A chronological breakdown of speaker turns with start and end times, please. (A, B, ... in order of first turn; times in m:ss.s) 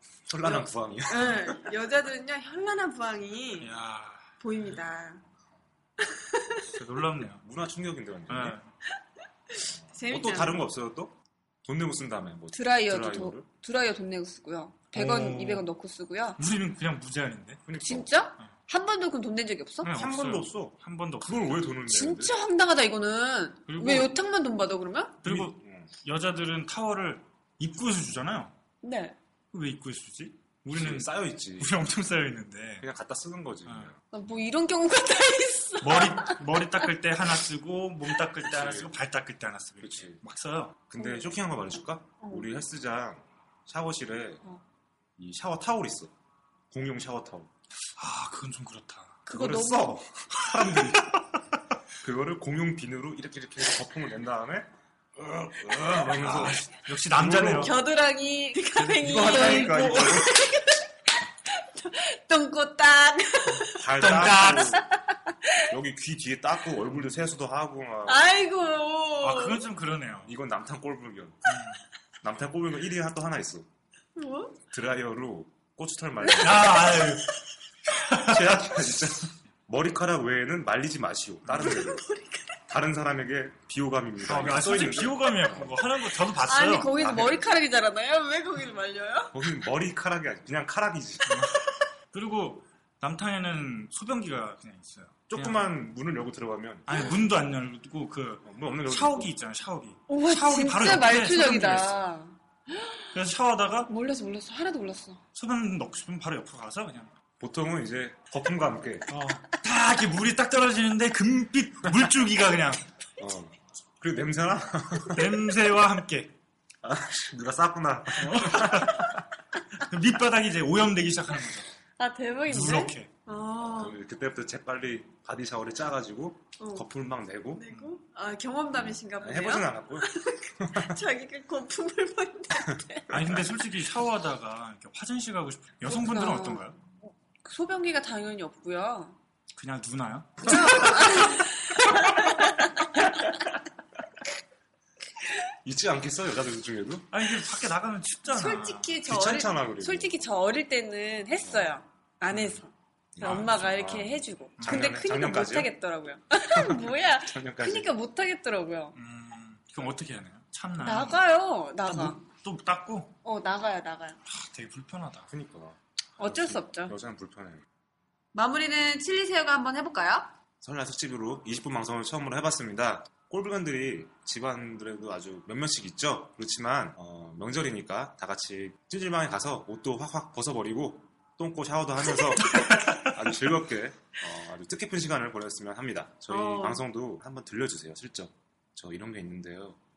0:00.3-0:01.6 A
0:00.4-0:03.7 B
0:03.6-0:04.8 C
0:04.4-0:05.2 B
0:06.1-0:06.6 B
0:06.6-0:07.4 C
0:07.4-0:08.6 A
0:08.3-0:08.7 C
0:09.5-0:10.6 B
0:09.8-0:13.5 A
0:12.5-0:16.4 B
0:14.9-0:15.6 C
0:16.4-0:17.6 C
0:17.7-0:18.1 A
0:17.8-0:19.9 B
0:19.8-0:21.6 C
0:20.0-0:22.3 A
0:21.9-0:25.2 B
0:23.7-0:24.1 C
0:25.2-0:28.5 C
0:25.2-0:25.9 A
0:28.8-0:29.2 B
0:29.5-0:32.9 C
0:30.7-0:31.8 A
0:32.8-0:34.0 A
0:34.1-0:36.4 B
0:35.8-0:40.8 C
0:38.5-0:39.0 A
0:39.8-0:40.2 A
0:40.9-0:44.4 A
0:41.0-0:41.3 B
0:42.2-0:42.5 B
0:45.2-0:46.1 A
0:46.7-0:47.5 A
0:47.9-0:49.2 C
0:49.3-0:50.0 B
0:49.3-0:51.1 A
0:50.5-0:51.2 C
0:52.0-0:57.8 A
0:55.8-0:57.8 C
0:57.5-1:00.9 B
0:58.8-1:00.4 A
0:59.4-0:59.8 C
1:01.5-1:05.2 B
1:03.5-1:04.8 C
1:03.7-1:04.8 A
1:05.7-1:08.3 A
1:08.1-1:09.6 B
1:09.2-1:10.3 C
1:10.2-1:11.5 A
1:11.5-1:11.8 C
1:12.2-1:13.7 A
1:14.2-1:14.6 B
1:14.7-1:17.0 A
1:16.4-1:17.3 C
1:17.9-1:18.6 C
1:18.2-1:22.0 A
1:21.5-1:21.7 C
1:21.6-1:22.6 B
1:22.7-1:25.8 A
1:24.2-1:27.0 C
1:26.4-1:29.4 B
1:26.9-1:27.4 A
1:29.3-1:31.4 A
1:31.3-1:31.6 C
1:32.1-1:35.7 C
1:35.3-1:37.2 A
1:36.9-1:42.0 C
1:38.4-1:39.3 A
1:40.1-1:43.1 B
1:43.1-1:43.9 C
1:43.9-1:45.2 B
1:45.3-1:47.1 C
1:47.4-1:49.1 A
1:49.1-1:52.8 C
1:53.2-1:55.3 A
1:55.1-1:56.3 C
1:56.8-1:59.1 A
1:58.2-1:59.2 C
1:59.8-2:01.7 C
2:02.0-2:04.0 B
2:02.5-2:03.1 C
2:03.6-2:07.6 A
2:06.6-2:06.9 B
2:07.5-2:13.1 B
2:08.7-2:11.0 A
2:13.1-2:16.8 C
2:15.8-2:16.6 B
2:17.4-2:19.2 B
2:19.6-2:21.0 C
2:20.4-2:23.1 B
2:25.6-2:27.1 A
2:27.1-2:28.9 C
2:28.3-2:39.0 B
2:29.0-2:30.2 A
2:31.4-2:31.7 A
2:32.3-2:32.6 C
2:33.2-2:35.7 A
2:33.2-2:33.6 C
2:34.6-2:35.0 C
2:36.5-2:37.9 A
2:39.0-2:41.2 C
2:40.8-2:42.2 B
2:41.8-2:43.1 C
2:43.2-2:44.2 B
2:44.3-2:45.3 C
2:45.3-2:47.6 A
2:46.2-2:46.9 B
2:48.3-2:50.3 B
2:50.6-3:09.8 A
3:02.5-3:03.0 C
3:06.3-3:06.8 B